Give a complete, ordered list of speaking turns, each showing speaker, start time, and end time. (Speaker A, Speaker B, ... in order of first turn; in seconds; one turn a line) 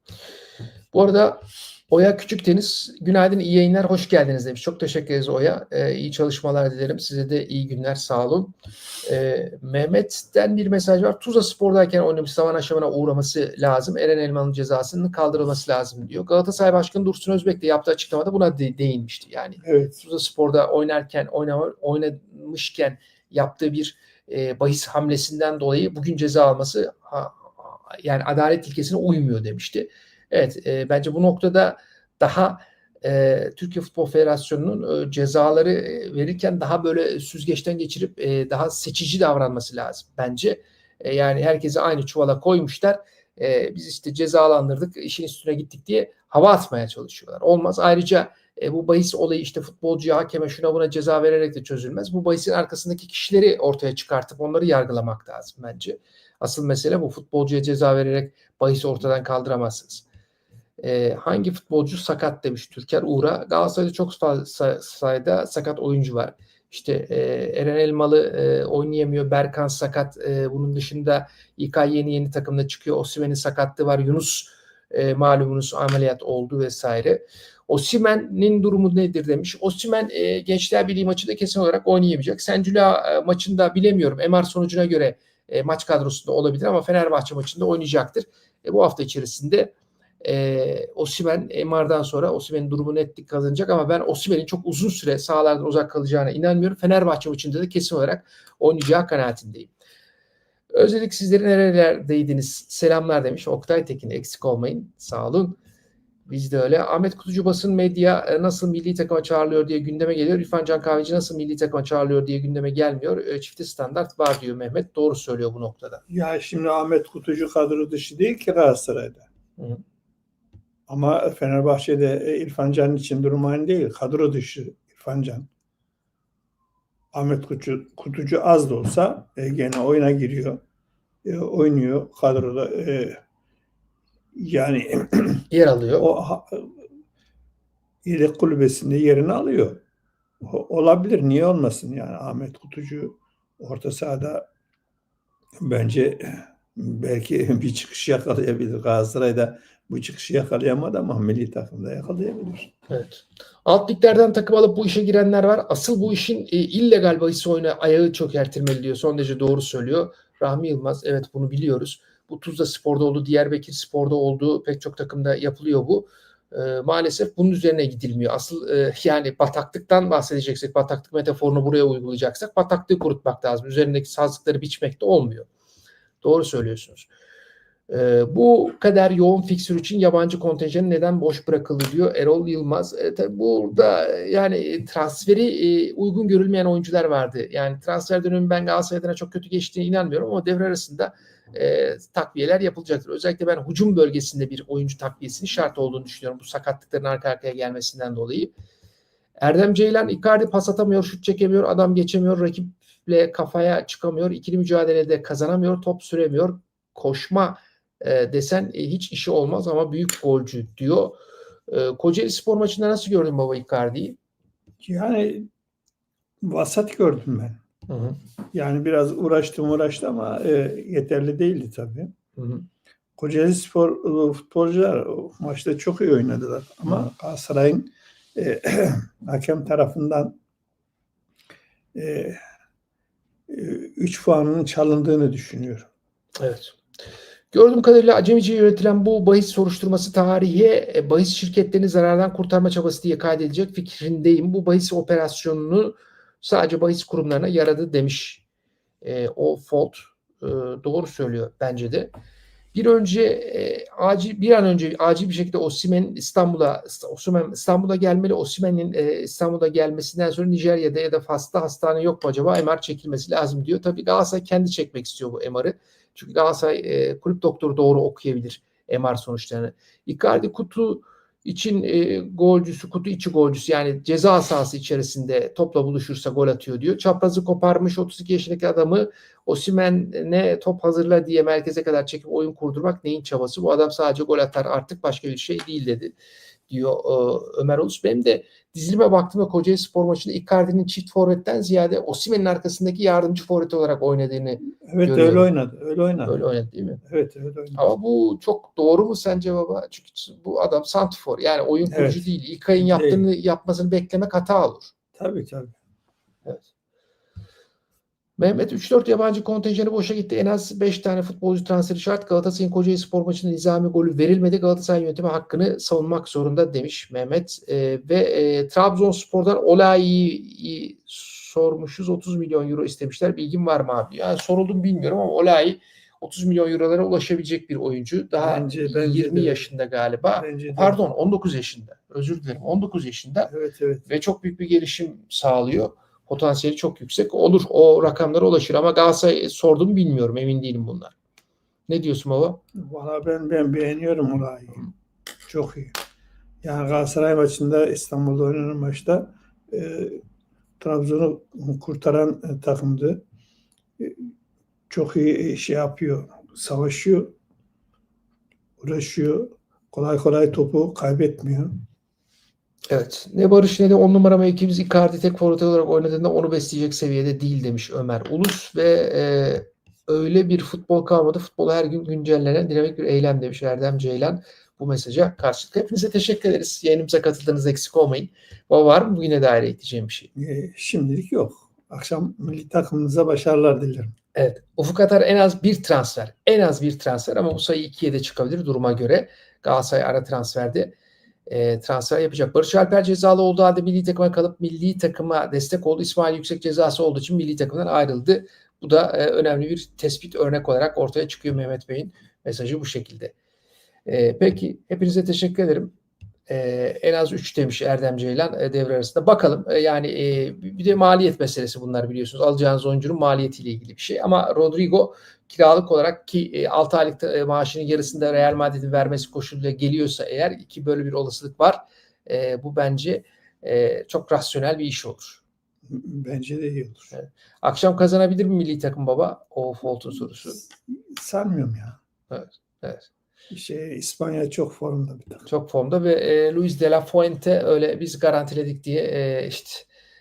Speaker A: 0.9-60.0
Speaker B: 19.6-20.0
Speaker A: 60.8-99.7
Speaker A: 100.7-105.6
Speaker A: 106.3-116.0
Speaker B: 116.1-119.3
Speaker B: 120.9-125.5
Speaker B: 127.1-130.6
Speaker B: 131.2-133.2
Speaker B: 134.3-135.5
Speaker A: 135.5-136.1
Speaker B: 136.0-136.7
Speaker B: 138.0-139.8
Speaker B: 140.4-144.5
Speaker B: 145.6-152.7
Speaker A: 152.9-175.5
Speaker A: 176.2-177.1
Speaker A: 177.9-198.5
Speaker A: 199.4-214.2
Speaker B: 214.8-215.5
Speaker B: 216.4-217.6
Speaker A: 217.9-218.2
Speaker B: 218.5-222.1
Speaker A: 222.4-222.7
Speaker B: 223.2-230.4
Speaker B: 231.9-232.4
Speaker B: 233.5-235.9
Speaker A: 236.4-236.8
Speaker A: 237.5-248.4
Speaker A: 249.0-252.1
Speaker A: 252.7-286.1
Speaker A: 286.7-295.5
Speaker B: 294.8-296.4
Speaker A: 296.3-297.0
Speaker B: 297.0-297.8
Speaker A: 297.8-304.9
Speaker B: 301.9-302.3
Speaker B: 302.8-303.3
Speaker B: 305.1-305.8
Speaker A: 308.4-333.5
Speaker B: 328.4-329.7
Speaker B: 330.4-331.0
Speaker B: 333.5-334.1
Speaker A: 334.1-341.1
Speaker A: 341.9-342.6
Speaker B: 342.8-344.8
Speaker B: 345.5-345.9
Speaker B: 346.6-350.2
Speaker B: 350.8-353.2
Speaker B: 354.0-354.3
Speaker B: 354.9-357.4
Speaker B: 358.8-361.8
Speaker A: 362.9-380.3
Speaker B: 380.4-384.1
Speaker A: 384.4-390.9
Speaker A: 391.5-403.3
Speaker A: 404.1-405.9
Speaker A: 406.5-425.4
Speaker B: 425.9-427.1
Speaker A: 427.1-430.6
Speaker B: 430.9-432.0
Speaker A: 432.3-433.1
Speaker B: 433.5-435.5
Speaker A: 435.5-439.9